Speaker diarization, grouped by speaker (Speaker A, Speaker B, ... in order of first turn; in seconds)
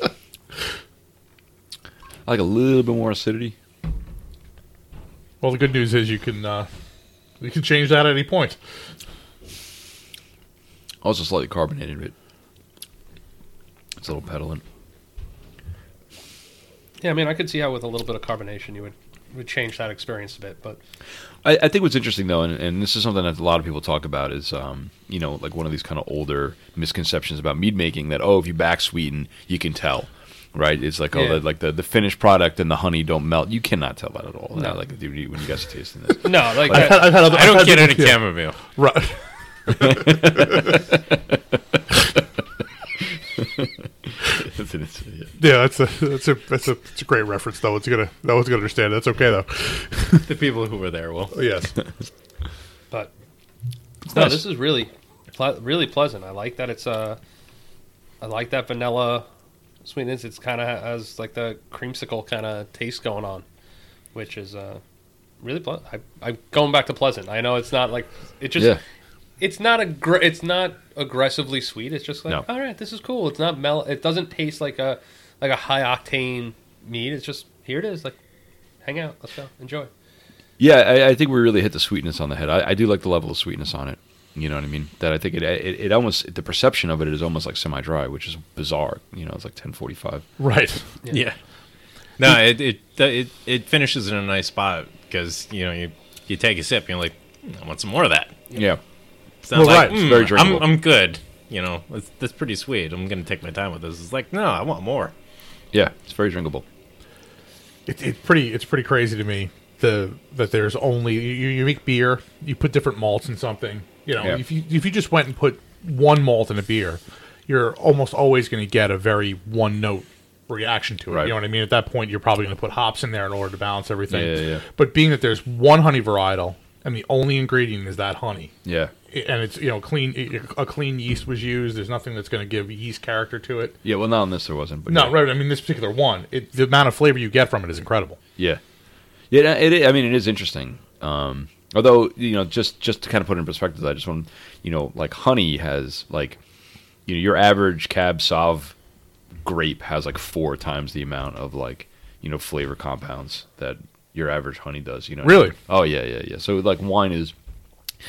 Speaker A: 2.2-3.5, 11.0-12.1, 14.0-14.6, 21.4-36.7, 39.7-41.0, 43.4-43.7, 44.2-45.3, 54.0-54.4, 80.6-90.2, 98.5-98.8, 99.5-100.8, 105.7-106.6, 121.1-121.3, 124.1-124.6, 128.6-128.9, 133.8-135.3, 139.3-146.4, 147.1-148.7, 149.4-157.3
Speaker B: 5.4-6.7, 7.4-8.6, 36.7-39.2, 39.7-40.6, 45.4-50.2, 51.3-51.7, 90.4-90.8, 99.5-100.2, 107.8-128.5, 129.1-133.8, 134.9-138.2, 155.2-155.6
Speaker C: 17.0-20.8, 31.1-31.4, 36.2-37.1, 54.1-57.2, 58.2-59.3, 59.8-63.4, 64.1-64.8, 65.4-68.8, 69.4-78.2, 78.8-79.9
Speaker D: 36.7-38.6, 50.2-51.4, 91.1-91.3, 92.2-98.4, 99.4-105.1